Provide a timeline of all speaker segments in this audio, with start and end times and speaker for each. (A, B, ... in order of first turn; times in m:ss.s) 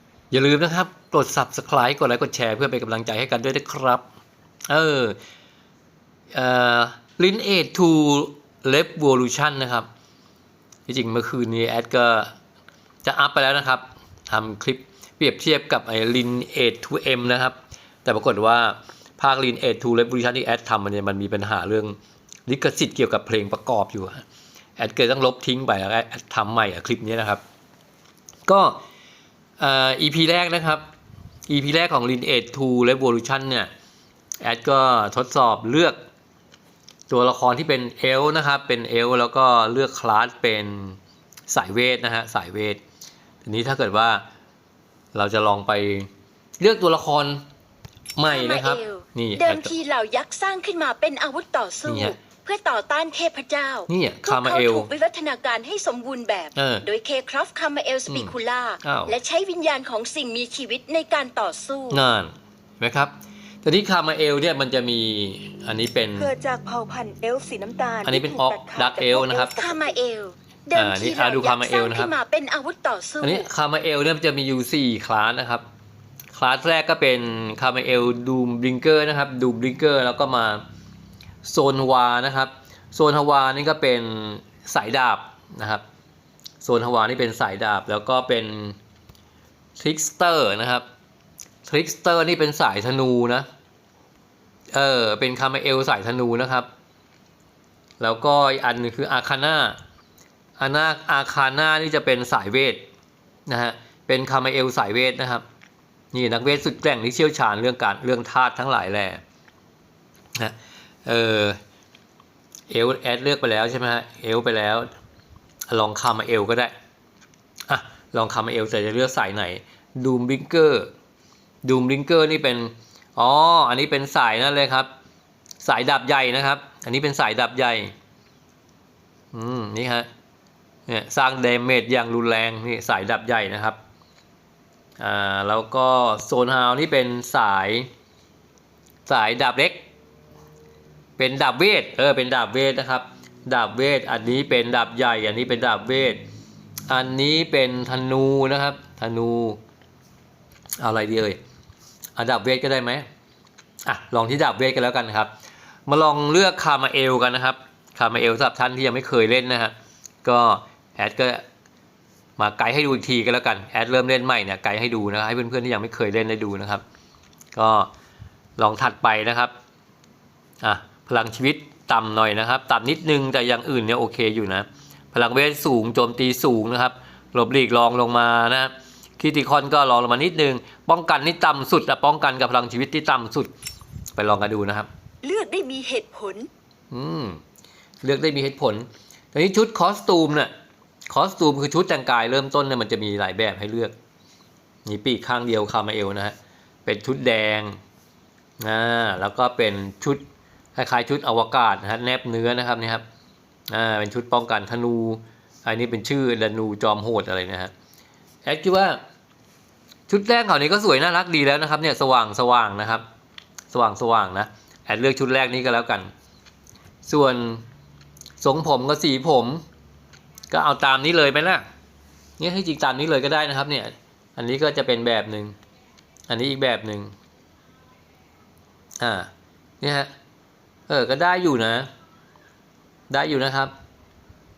0:00.3-0:04.0 A
0:04.7-0:05.2 A
0:06.3-0:09.9 A
0:10.9-0:12.3 A
0:13.0-0:22.0 A
0:22.5-0:24.2 A
0:24.8-0:27.4 A
0:28.5-0:28.8 A
0:29.6-0:30.8 A
0:31.5-0:33.7 A
0:34.4-0:36.0 A
0:37.1-0:42.8 A
0:43.4-0:44.2 A
0:45.1-0:47.4 A
0:48.2-0:49.7 A
0:48.3-1:02.0 B
0:51.9-0:52.2 A
0:53.9-0:54.9 A
0:56.6-0:56.9 A
0:58.1-0:59.2 A
1:01.9-1:06.3 A
1:06.2-1:10.0 C
1:08.0-1:09.6 A
1:09.6-1:13.5 B
1:10.8-1:12.1 A
1:13.2-1:15.6 A
1:16.3-1:20.6 A
1:21.4-1:25.8 A
1:26.6-1:28.8 A
1:29.8-1:30.8 A
1:31.7-1:33.5 A
1:34.7-1:36.7 A
1:38.0-1:39.8 A
1:40.6-1:42.9 A
1:43.5-1:45.4 A
1:46.1-1:49.2 A
1:50.4-1:51.6 A
1:52.7-1:54.9 A
1:55.7-1:56.7 A
1:57.7-2:00.9 A
2:01.6-2:04.9 A
2:05.6-2:07.9 A
2:09.3-2:10.1 A
2:10.9-2:13.8 A
2:15.0-2:17.9 A
2:19.1-2:19.9 A
2:21.2-2:26.2 A
2:26.9-2:29.6 A
2:30.8-2:31.4 A
2:32.2-2:33.1 A
2:33.9-2:35.3 A
2:35.9-2:41.4 A
2:42.4-2:46.8 A
2:47.5-2:47.9 A
2:48.6-2:49.5 A
2:50.6-3:03.5 A
3:04.2-3:04.9 A
3:05.2-3:06.5 C
3:06.9-3:07.4 A
3:08.0-3:10.5 A
3:11.1-3:13.9 A
3:14.8-3:17.8 A
3:18.6-3:20.2 A
3:20.8-3:23.0 A
3:23.7-3:27.7 A
3:28.4-3:29.0 A
3:30.1-3:33.0 A
3:33.7-3:36.1 A
3:37.0-3:37.7 A
3:38.4-3:39.6 A
3:40.5-3:41.6 A
3:42.4-3:45.6 A
3:46.3-3:47.1 A
3:49.0-3:50.1 A
3:50.9-3:51.9 A
3:53.1-3:53.7 A